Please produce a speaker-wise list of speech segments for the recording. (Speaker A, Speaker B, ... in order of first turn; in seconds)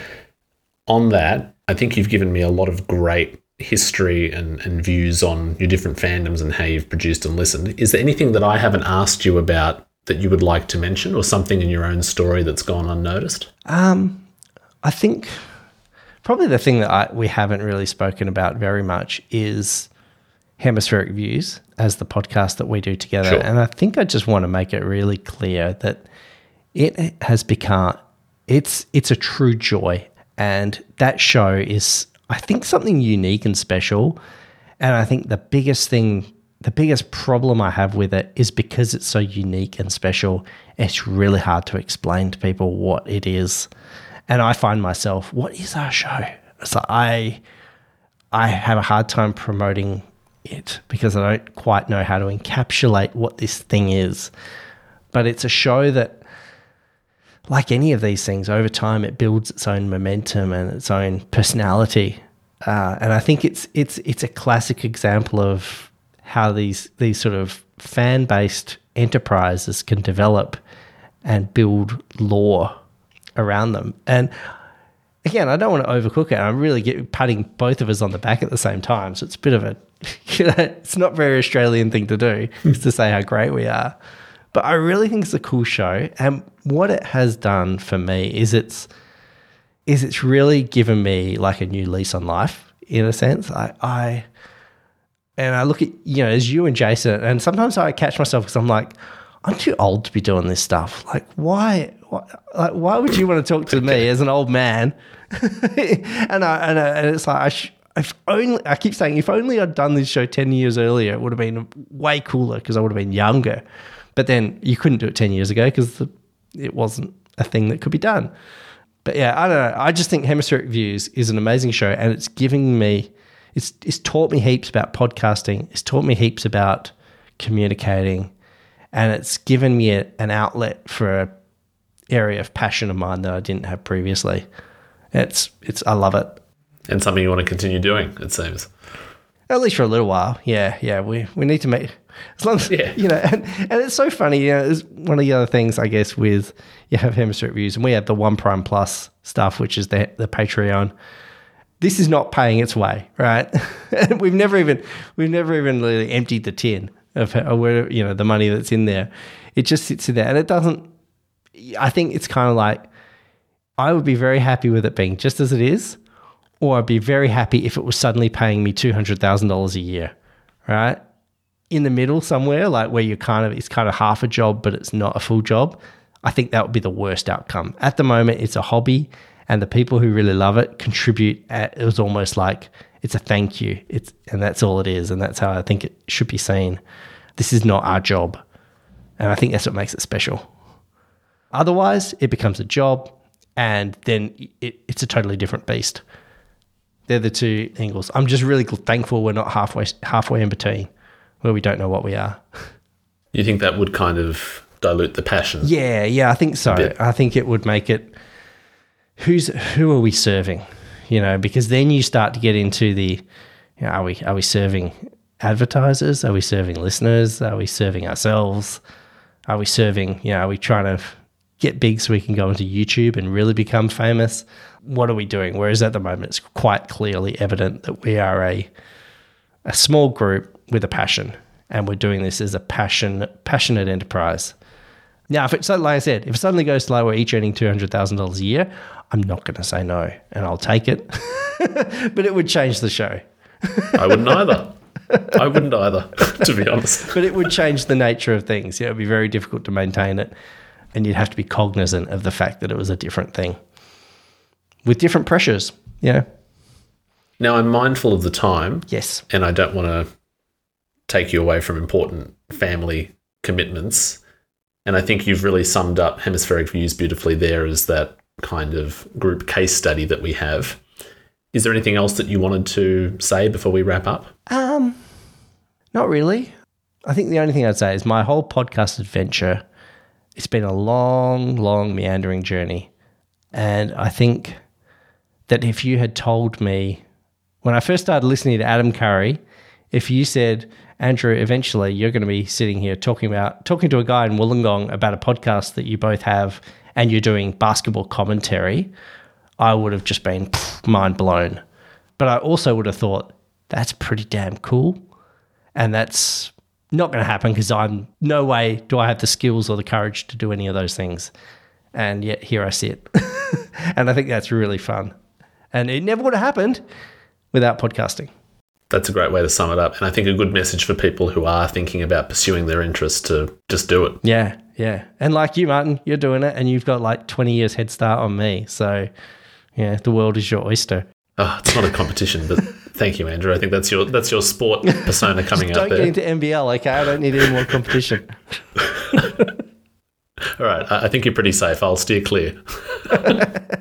Speaker A: 0.9-13.5, 136.9-138.7, 142.7-143.0, 203.3-205.7, 243.9-244.8, 245.3-247.3, 257.4-260.1, 261.1-264.2, 264.8-270.8, 271.5-274.3, 318.9-324.2, 331.4-336.1, 339.1-339.4, 340.5-343.5
Speaker B: 13.7-14.2, 14.8-15.3, 16.2-19.9, 20.6-26.0, 26.7-34.2, 34.8-43.7, 44.3-47.4, 48.3-54.3, 55.1-56.2, 57.5-70.6, 71.2-72.7, 73.4-74.3, 75.2-83.9, 84.5-88.9, 89.9-94.2, 95.4-113.6, 114.2-118.3, 119.0-128.3, 128.9-131.3, 132.1-134.4, 135.1-136.4, 139.5-150.9, 151.8-160.9, 161.6-162.8, 163.8-166.0, 166.6-170.1, 170.7-171.0, 171.7-186.8, 187.4-188.4, 189.2-190.5, 191.5-196.0, 197.1-200.9, 201.4-202.4, 205.6-208.2, 209.2-213.2, 213.8-218.8, 219.5-228.7, 229.7-234.5, 235.3-244.6, 245.1-245.4, 247.1-250.3, 250.9-253.6, 254.8-256.2, 258.9-259.2, 274.5-275.0, 275.9-276.5, 277.1-279.6, 280.4-282.9, 283.5-284.6, 285.5-287.0, 287.6-289.4, 289.9-298.9, 299.6-301.6, 302.2-305.0, 305.8-311.3, 311.9-315.1, 315.7-316.8, 317.5-318.3, 324.2-329.1, 329.8-331.1, 334.9-338.3